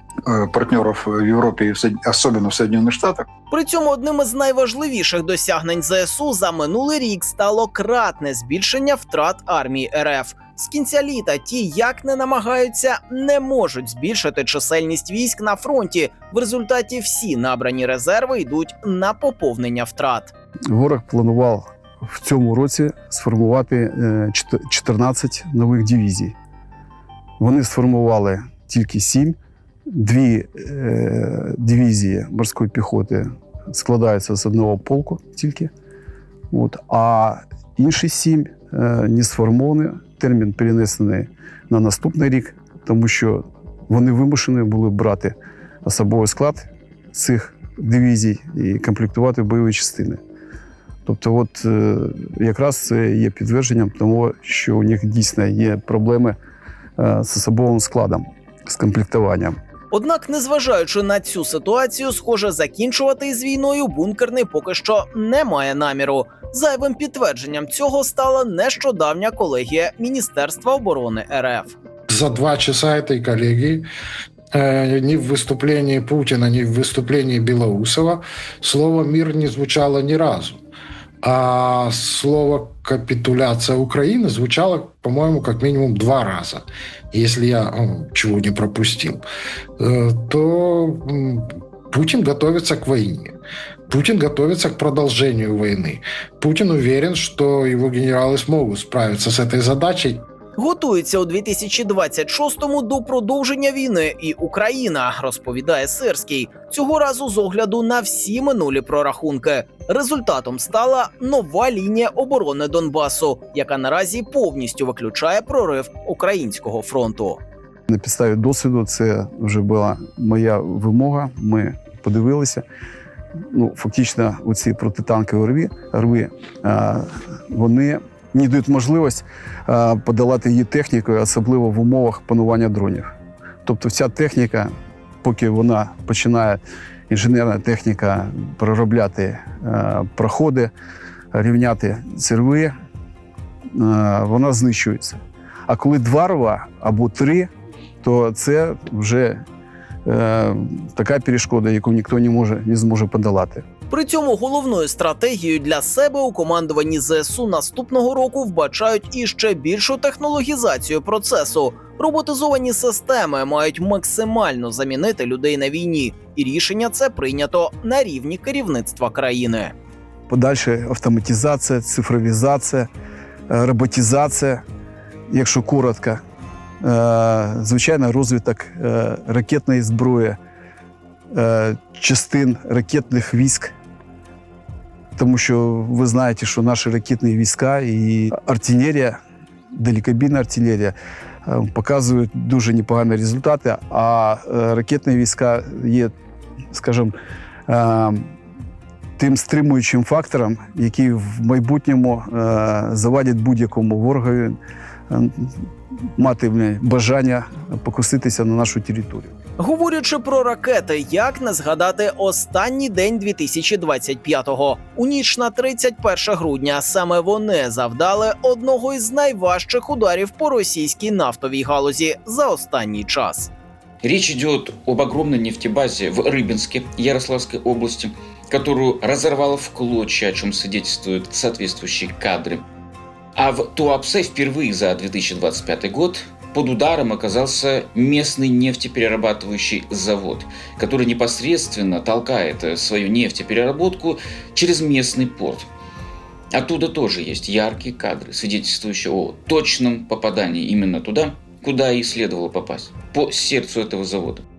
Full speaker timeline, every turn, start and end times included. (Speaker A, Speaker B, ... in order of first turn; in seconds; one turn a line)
Speaker A: 0.3-3.3
Speaker B: 3.5-20.3
Speaker C: 20.7-26.4
Speaker C: 27.4-29.4
Speaker C: 29.9-35.7
Speaker C: 36.5-50.2
Speaker C: 51.0-56.4
Speaker C: 57.0-59.6
Speaker B: 59.9-71.8
Speaker D: 72.1-73.9
Speaker D: 74.5-80.6
Speaker D: 81.2-89.2
Speaker D: 89.8-93.3
Speaker D: 93.9-100.2
Speaker B: 100.6-117.4
Speaker C: 117.9-122.6
Speaker C: 123.4-133.1
Speaker C: 133.7-140.7
Speaker C: 141.3-142.7
Speaker C: 143.7-147.5
Speaker C: 148.0-149.4
Speaker C: 150.1-153.7
Speaker B: 153.9-169.7
Speaker C: 170.3-172.9
Speaker C: 173.5-174.6
Speaker C: 175.3-176.2
Speaker C: 176.8-180.4
Speaker C: 181.3-183.7
Speaker C: 185.2-189.2
Speaker C: 189.7-196.1
Speaker C: 196.7-197.1
Speaker C: 197.7-198.3
Speaker C: 199.2-204.6
Speaker C: 205.1-209.3
Speaker B: 209.6-223.5
Speaker E: 224.0-232.6
Speaker E: 233.4-245.7
Speaker E: 246.5-254.4